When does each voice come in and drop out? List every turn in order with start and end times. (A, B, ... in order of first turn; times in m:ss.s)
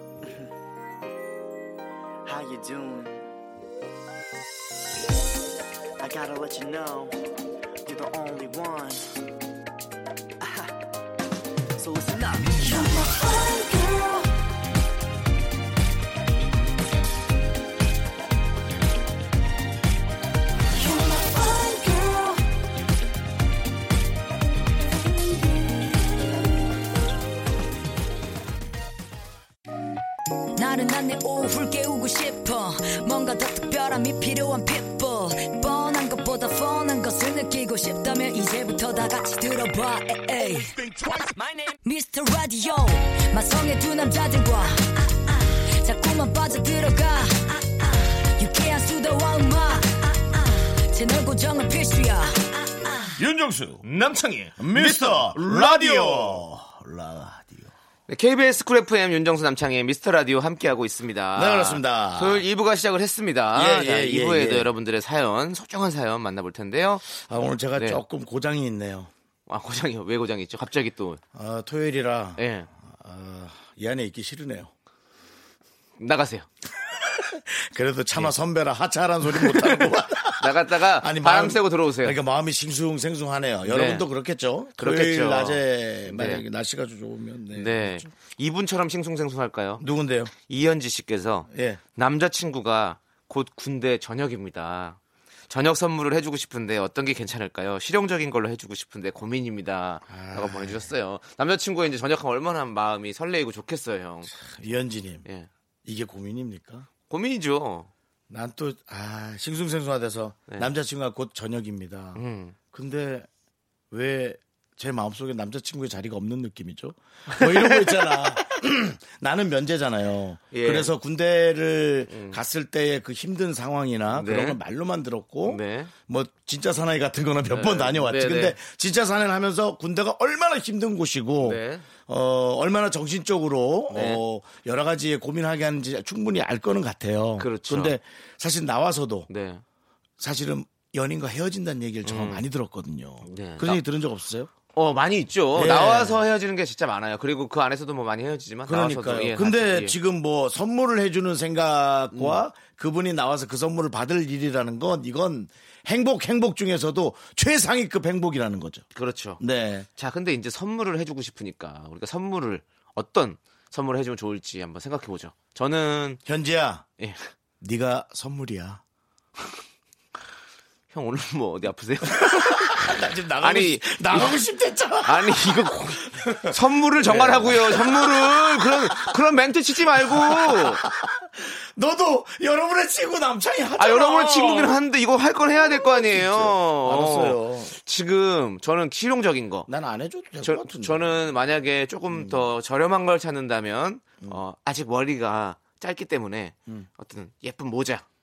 0:02.2-0:03.3 A
0:06.0-0:07.2 A
0:07.8-0:09.1 A
0:10.4-0:10.7 A
0:11.8-0:12.9 A
0:12.6-0:14.3 B
0:20.8-0:22.5 B
0:30.6-0:40.8 B
0:41.8-0:53.2 B
0:53.2-0:53.8 C
0:53.8-0:56.4 D
0:54.6-0:57.7 C
0:58.1-1:07.0 D
1:01.3-1:02.4 C
1:03.5-1:04.7 C
1:07.1-1:09.1 C
1:09.5-1:11.2 D
1:11.3-1:14.7 C
1:12.4-1:12.7 D
1:16.0-1:16.5 D
1:16.9-1:28.1 C
1:19.3-1:22.2 D
1:23.6-1:24.0 D
1:24.8-1:26.4 D
1:27.5-1:29.8 D
1:29.8-1:30.3 C
1:30.4-1:44.3 D
1:31.5-1:31.8 C
1:40.1-1:40.9 C
1:44.3-1:45.2 C
1:45.8-1:46.9 C
1:47.1-1:47.9 D
1:48.3-1:53.3 C
1:52.1-1:52.5 D
1:53.9-2:19.3 C
1:57.3-1:58.1 D
2:00.5-2:00.9 D
2:02.1-2:02.4 D
2:04.1-2:04.6 D
2:05.4-2:05.9 D
2:07.5-2:08.6 D
2:11.4-2:11.9 D
2:13.9-2:14.2 D
2:17.4-2:18.0 D
2:19.3-2:19.6 D
2:20.2-2:24.5 C
2:22.0-2:22.4 D
2:23.2-2:23.8 D
2:24.7-2:30.0 D
2:25.5-2:26.2 C
2:28.7-2:38.8 C
2:32.1-2:32.4 D
2:38.9-2:39.4 D
2:39.4-2:39.9 C
2:40.0-2:46.2 D
2:46.2-2:46.8 C
2:47.6-2:48.8 C
2:50.9-2:54.4 D
2:52.2-2:59.2 C
2:55.0-3:00.8 D
3:00.0-3:04.8 C
3:03.8-3:09.7 D
3:05.5-3:07.7 C
3:09.7-3:11.2 C
3:10.4-3:18.0 D
3:12.1-3:12.5 C